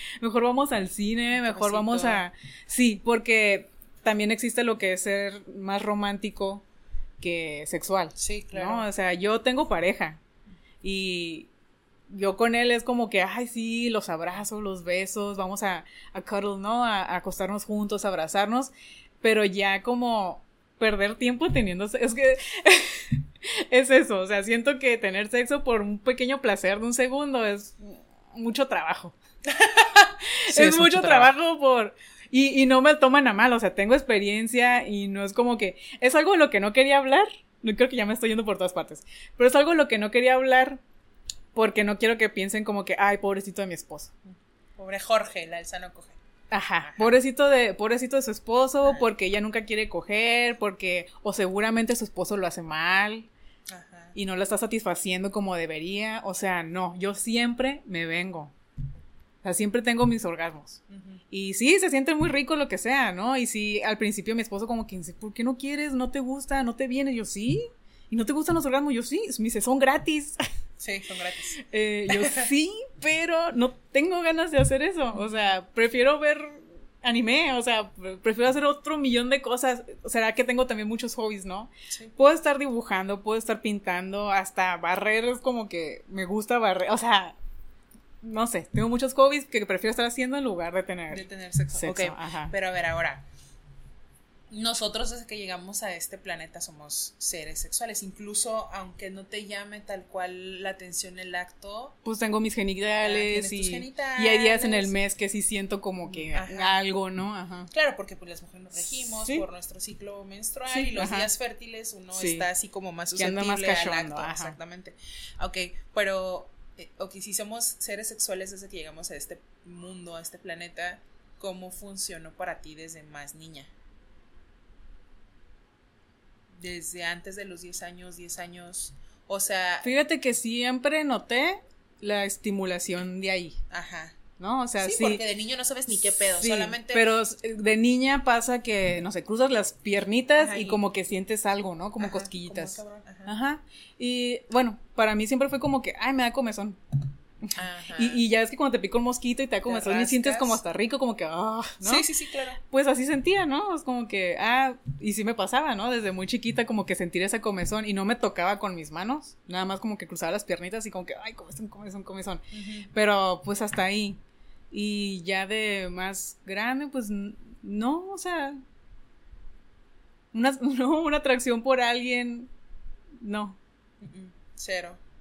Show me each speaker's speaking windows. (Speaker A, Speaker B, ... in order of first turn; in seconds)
Speaker A: 0.2-6.6, 7.2-10.2, 10.8-11.5, 12.1-29.1, 30.4-40.8, 41.5-44.1, 46.5-53.3, 54.1-58.5, 59.4-70.4, 71.6-87.4, 88.2-91.2, 91.8-92.5, 102.0-107.7, 109.0-109.5, 110.7-111.3, 112.1-112.4, 113.2-114.5, 129.8-133.6, 134.4-135.2, 136.1-146.8, 147.4-152.0, 152.7-164.2, 164.7-168.6, 170.3-172.5, 173.2-173.6
Speaker B: 1.4-2.2, 8.2-8.9, 29.5-31.3, 44.8-46.2, 46.8-47.1, 53.7-54.1, 60.9-61.2, 70.8-72.5, 81.9-82.2, 91.1-93.2, 94.5-102.0, 103.0-104.9, 106.1-106.7, 107.7-123.7, 126.6-129.9, 133.7-134.2, 134.8-137.0, 140.4-140.8, 142.0-143.3, 147.5-148.2, 149.7-150.6, 151.8-152.6, 162.5-162.9, 174.0-175.0